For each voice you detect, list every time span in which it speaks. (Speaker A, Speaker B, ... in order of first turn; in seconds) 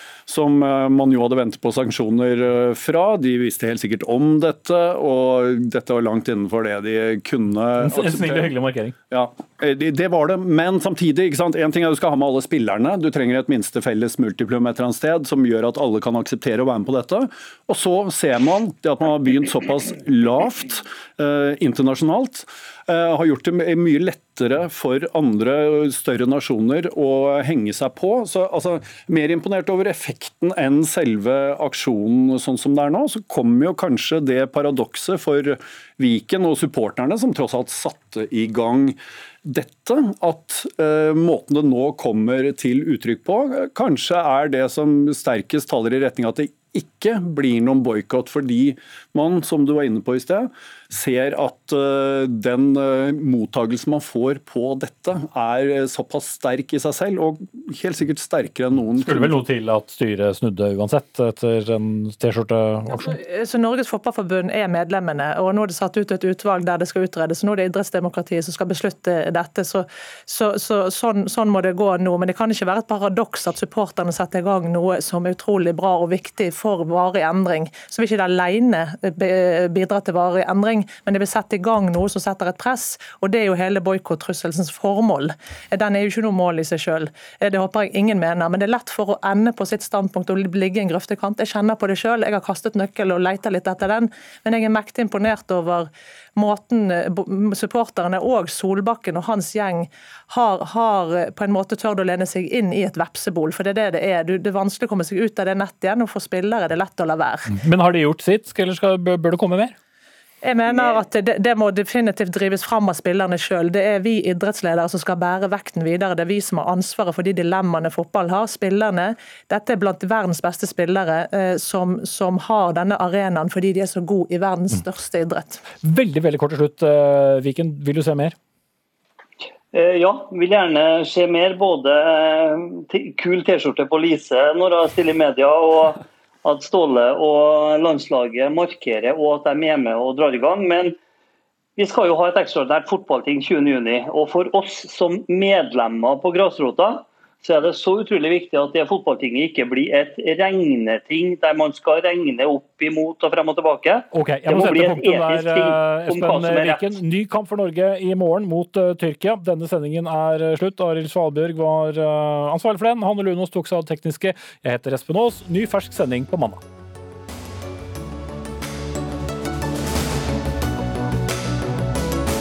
Speaker A: 0.3-8.5, 9.1-59.4
Speaker B: 7.8-9.0, 59.0-63.2, 107.5-109.7, 125.8-128.3, 154.1-166.6
Speaker C: 63.0-107.5, 110.4-125.6
Speaker D: 110.7-111.0, 129.7-140.9, 141.8-156.9